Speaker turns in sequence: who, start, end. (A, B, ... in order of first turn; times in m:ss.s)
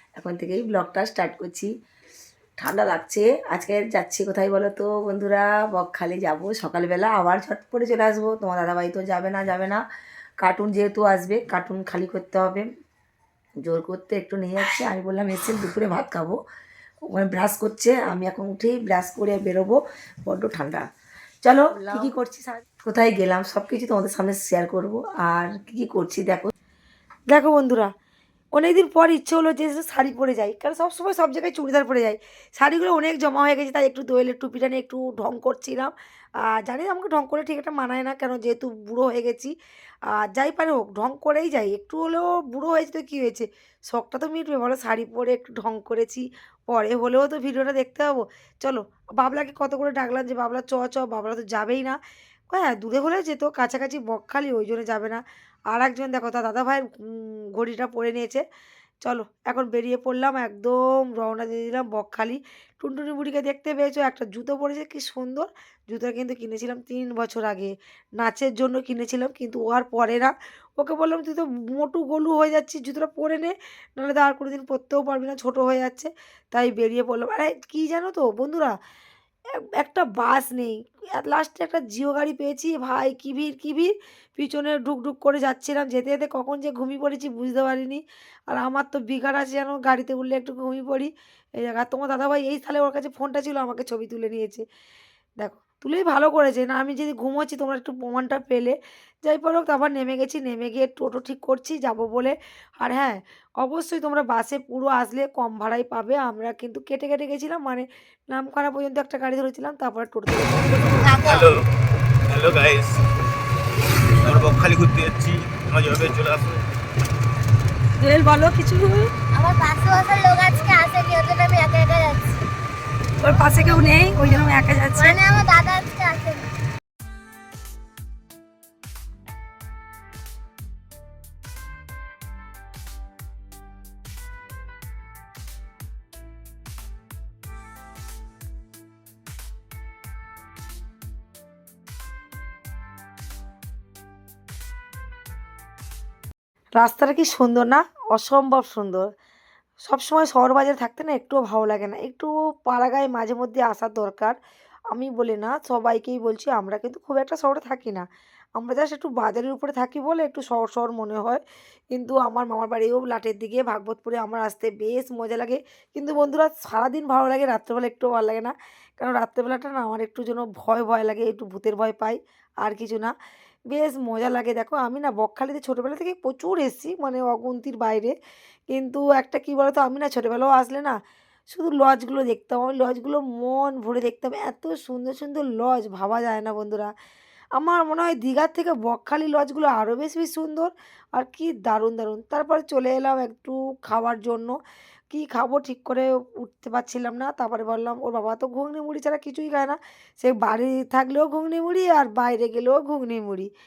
0:00.2-0:01.7 A
0:02.6-0:09.8 A
0:10.4-0:12.7 A
0:13.6-0:16.4 A
0:17.1-0:20.8 A
0:21.4-0:26.5 A
0:27.3-0:27.9 A
0:28.5-0:35.9 A
0:36.4-0:39.5 A
0:40.1-0:52.0 A
0:52.5-0:58.4 A
0:59.0-1:18.7 A
1:19.6-1:34.6 A
1:35.4-1:51.0 A
1:51.0-1:51.5 B
1:51.2-1:51.6 C
1:52.3-1:53.0 C
1:54.2-1:56.6 C
1:58.0-1:59.1 A
1:59.3-2:02.4 B
2:03.2-2:05.2 A
2:04.9-2:06.5 B
2:26.8-2:29.1 A
2:29.8-2:34.4 A
2:34.9-2:38.0 A
2:38.6-2:41.4 A
2:41.9-2:53.1 A
2:53.7-2:58.1 A
2:58.7-3:01.0 A
3:01.5-3:06.9 A
3:07.6-3:14.6 A
3:15.1-3:23.5 A